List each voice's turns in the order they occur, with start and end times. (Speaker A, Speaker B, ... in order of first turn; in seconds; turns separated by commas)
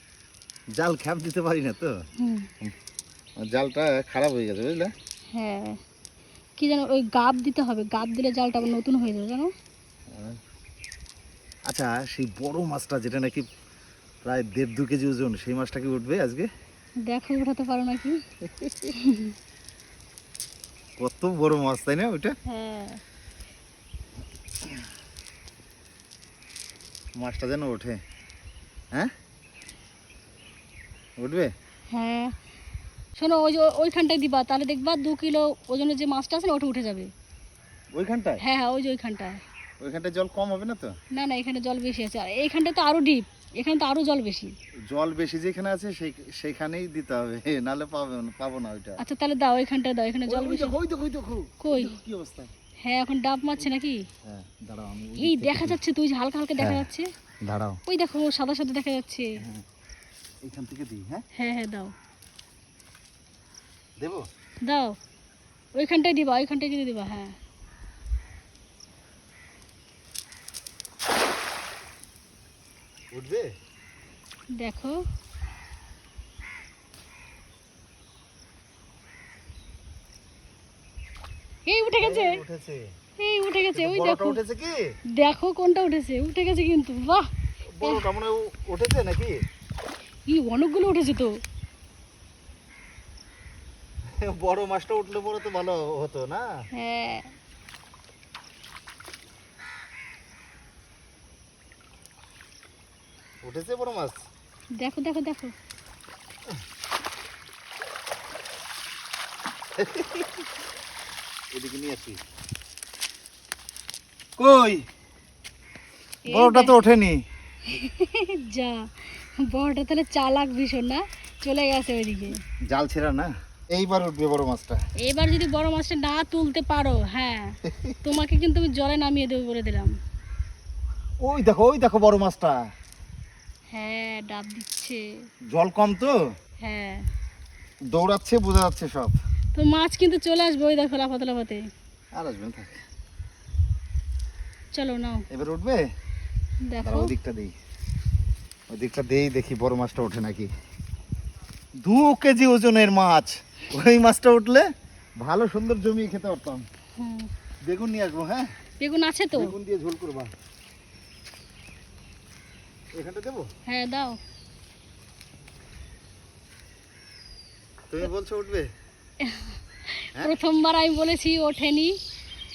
Speaker A: 0.8-1.9, Speaker B: 2.2-2.5, Speaker A: 3.4-4.9, Speaker B: 5.3-5.8, Speaker B: 6.6-9.5, Speaker A: 10.1-10.4, Speaker A: 11.7-13.5, Speaker A: 14.2-16.5, Speaker B: 17.1-18.2, Speaker A: 18.6-18.9, Speaker B: 19.0-19.3, Speaker A: 21.0-22.3, Speaker B: 22.5-23.0, Speaker A: 27.2-28.0, Speaker A: 31.2-31.5, Speaker B: 31.9-32.3, Speaker B: 33.2-37.1, Speaker A: 38.0-38.4, Speaker B: 38.4-39.4, Speaker A: 39.8-40.9, Speaker B: 41.1-44.5, Speaker A: 44.9-49.0, Speaker B: 49.0-50.8, Speaker A: 50.3-52.5, Speaker B: 51.6-52.0, Speaker B: 52.8-54.1, Speaker A: 54.3-55.8, Speaker B: 55.2-57.1, Speaker A: 56.6-56.9, Speaker A: 57.4-57.8, Speaker B: 57.9-59.3, Speaker A: 60.4-61.2, Speaker B: 61.4-61.9, Speaker A: 64.0-64.3, Speaker B: 64.7-65.0, Speaker B: 65.8-67.3, Speaker A: 73.1-73.5, Speaker B: 74.6-75.0, Speaker B: 81.7-82.4, Speaker A: 82.0-82.8, Speaker B: 83.2-84.4, Speaker A: 83.7-84.8, Speaker B: 85.2-87.3, Speaker A: 87.7-89.4, Speaker B: 90.3-91.4, Speaker A: 94.2-96.5, Speaker B: 96.8-97.3, Speaker A: 103.4-104.2, Speaker B: 104.8-105.5, Speaker A: 109.8-110.3, Speaker A: 111.5-112.2, Speaker A: 114.4-114.8, Speaker B: 116.3-116.7, Speaker A: 116.3-117.2, Speaker B: 117.7-122.4, Speaker A: 122.7-124.8, Speaker B: 125.0-129.9, Speaker A: 127.7-128.0, Speaker A: 131.2-132.6, Speaker B: 133.7-135.1, Speaker A: 135.5-136.2, Speaker B: 136.6-137.0, Speaker A: 137.9-139.2, Speaker B: 139.6-141.7, Speaker A: 142.2-142.8, Speaker B: 144.7-145.2, Speaker A: 145.3-145.8, Speaker B: 146.7-147.1, Speaker A: 146.8-147.5, Speaker A: 148.7-150.5, Speaker A: 151.8-154.7, Speaker A: 155.2-156.7, Speaker B: 157.0-157.3, Speaker A: 157.7-158.5, Speaker B: 158.8-159.5, Speaker A: 159.3-160.3, Speaker A: 162.9-163.5, Speaker B: 163.7-164.2, Speaker A: 167.9-168.7, Speaker B: 169.2-172.0